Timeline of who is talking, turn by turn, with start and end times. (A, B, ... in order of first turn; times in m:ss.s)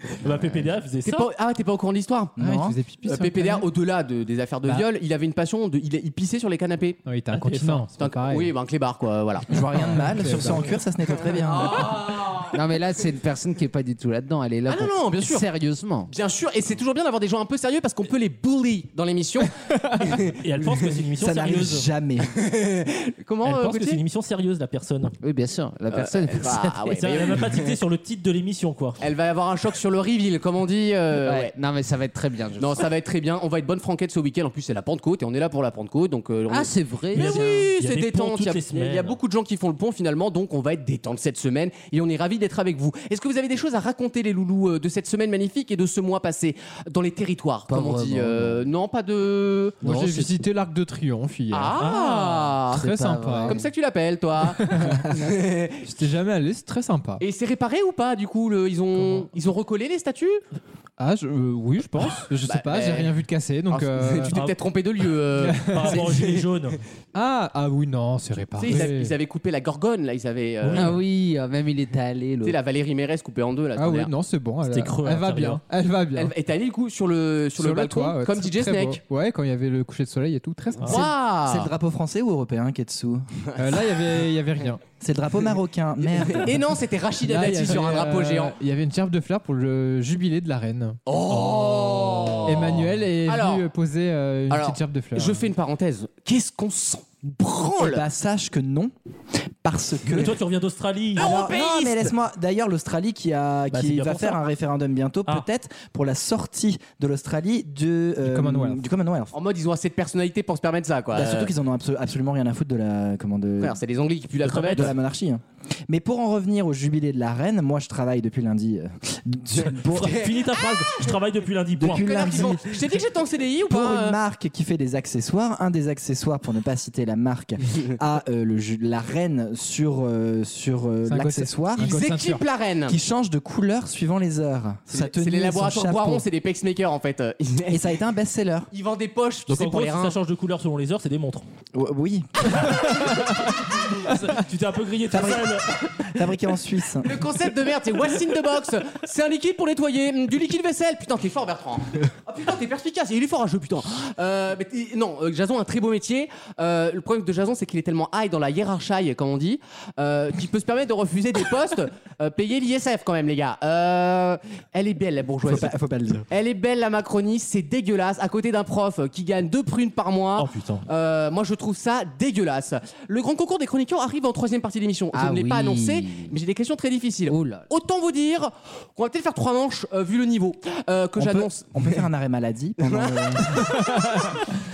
0:00.2-0:01.3 A
0:01.0-0:02.4 B
0:02.4-0:02.8 C
0:02.4-0:03.7 D
0:03.0-0:07.0 B
0:07.0-0:08.5 D
0:07.3-0:07.8 A
0:08.0-0:09.6 B
0:09.5-0:12.1 C
0:09.8-0:10.7 D
0:11.5-0:12.6 B
0:12.5-0:16.1 E
0:14.7-0:15.5 B
0:16.1-0:20.8 B
0:20.4-0:21.9 A
0:21.2-0:22.3 C
0:22.3-0:24.0 B
0:23.4-0:25.1 A
0:25.2-0:27.3 E
0:25.9-0:27.8 B
0:27.0-0:29.0 A
0:29.0-0:31.5 B
0:31.2-0:32.8 E
0:32.6-0:50.3 B
0:36.5-0:37.6 E
0:37.1-0:39.2 A
0:47.7-0:48.6 E
0:49.8-0:51.8 D
0:51.5-0:52.8 B
0:51.8-0:52.5 A
0:52.6-0:53.6 E
0:52.7-0:53.6 D
0:53.5-0:55.8 B
0:54.5-0:57.2 D
0:57.2-1:00.4 B
0:58.9-0:59.3 D
1:01.0-1:04.3 D
1:02.4-1:06.5 B
1:04.3-1:04.6 A
1:05.4-1:06.0 D
1:05.7-1:06.8 A
1:07.1-1:09.2 D
1:08.6-1:10.9 B
1:10.6-1:11.0 A
1:10.7-1:12.6 E
1:12.4-1:14.1 B
1:13.8-1:16.3 D
1:14.6-1:15.6 A
1:16.1-1:19.0 B
1:17.6-1:21.1 D
1:20.8-1:21.7 B
1:21.4-1:23.3 C
1:23.5-1:24.0 B
1:23.6-1:24.8 D
1:25.0-1:26.6 C
1:26.1-1:28.5 B
1:27.2-1:31.0 D
1:31.1-1:33.7 B
1:31.5-1:32.0 A
1:32.4-1:35.5 D
1:34.5-1:38.0 B
1:37.8-1:38.9 C
1:39.6-1:40.4 C
1:40.1-1:41.3 A
1:41.2-1:42.1 B
1:41.2-1:49.3 C
1:43.7-1:44.4 A
1:48.2-1:48.8 D
1:49.3-1:51.5 B
1:51.1-1:53.8 C
1:53.6-1:54.9 B
1:54.4-1:55.0 A
1:54.7-2:00.2 C
1:59.9-2:02.5 A
1:59.9-2:01.1 B
2:01.8-2:02.6 C
2:02.0-2:04.2 B
2:03.7-2:11.9 C
2:11.1-2:12.4 D
2:11.8-2:13.0 B
2:12.9-2:16.2 C
2:14.9-2:17.8 B
2:17.7-2:18.7 C
2:18.7-2:20.2 B
2:19.5-2:21.4 A
2:21.7-2:22.7 C
2:23.0-2:23.3 A
2:24.0-2:26.2 A
2:25.1-2:27.2 C
2:27.0-2:45.7 B
2:45.4-2:46.2 C
2:46.3-3:01.9 B
2:50.4-2:50.8 A
2:55.1-2:56.3 E
2:57.3-2:57.7 E
3:01.2-3:03.6 C
3:02.8-3:03.7 B